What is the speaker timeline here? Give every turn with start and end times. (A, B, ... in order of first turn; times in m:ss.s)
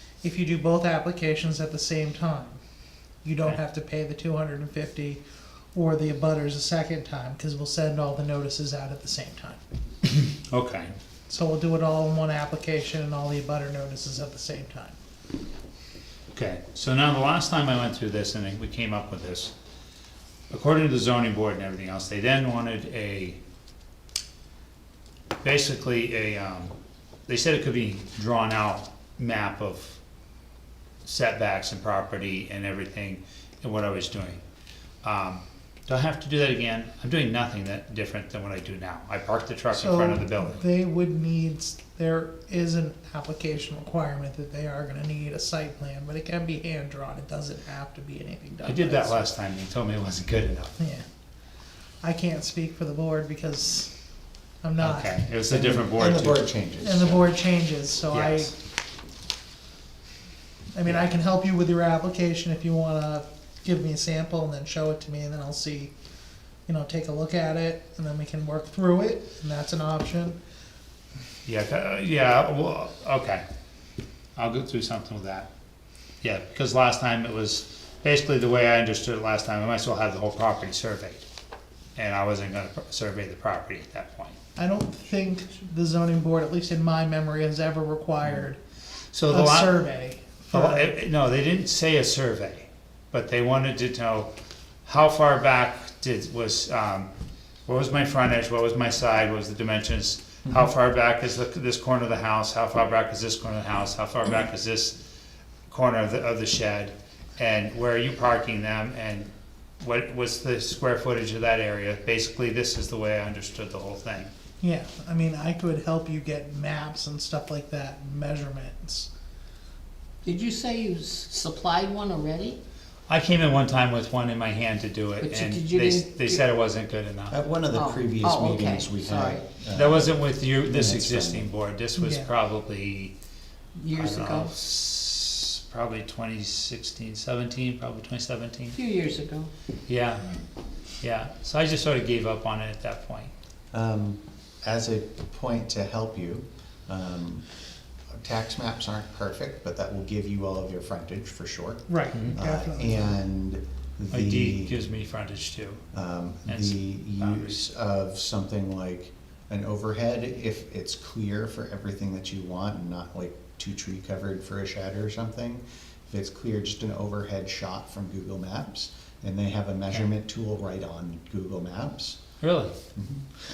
0:00.2-0:02.6 A
0:03.2-0:05.2 A
0:05.7-0:09.6 A
0:10.0-0:11.0 B
0:11.3-0:15.0 A
0:16.3-0:19.5 B
0:20.5-0:23.4 B
0:25.4-0:26.7 B
0:27.3-0:30.0 B
0:31.0-0:34.4 B
0:35.0-0:40.6 B
0:39.7-0:49.2 A
0:48.6-0:50.8 B
0:50.8-0:51.0 A
0:52.0-0:53.9 A
0:54.6-0:55.2 A
0:54.8-0:56.4 B
0:55.5-0:57.3 C
0:56.8-0:58.5 A
0:58.1-0:58.5 B
1:00.7-1:05.9 A
1:06.7-1:10.4 A
1:11.4-1:13.4 B
1:14.4-1:15.5 B
1:16.2-1:21.2 B
1:22.0-1:24.4 B
1:24.6-1:28.6 A
1:29.1-1:29.8 B
1:29.3-1:30.9 A
1:30.5-1:34.3 B
1:34.9-1:37.1 B
1:37.7-1:45.0 B
1:45.7-1:54.3 B
1:54.6-1:59.1 A
2:00.2-2:02.6 D
2:03.1-2:07.3 B
2:05.2-2:06.4 D
2:07.3-2:11.5 C
2:07.7-2:09.4 D
2:09.7-2:13.1 B
2:12.0-2:12.3 A
2:13.8-2:14.5 D
2:13.9-2:18.8 B
2:18.7-2:19.5 D
2:19.9-2:20.3 B
2:21.0-2:23.3 B
2:23.7-2:27.4 C
2:28.1-2:34.8 C
2:31.9-2:33.2 A
2:34.1-2:35.8 B
2:35.9-2:52.2 C
2:36.5-2:37.7 B
2:52.4-2:52.8 B
2:52.9-2:53.3 C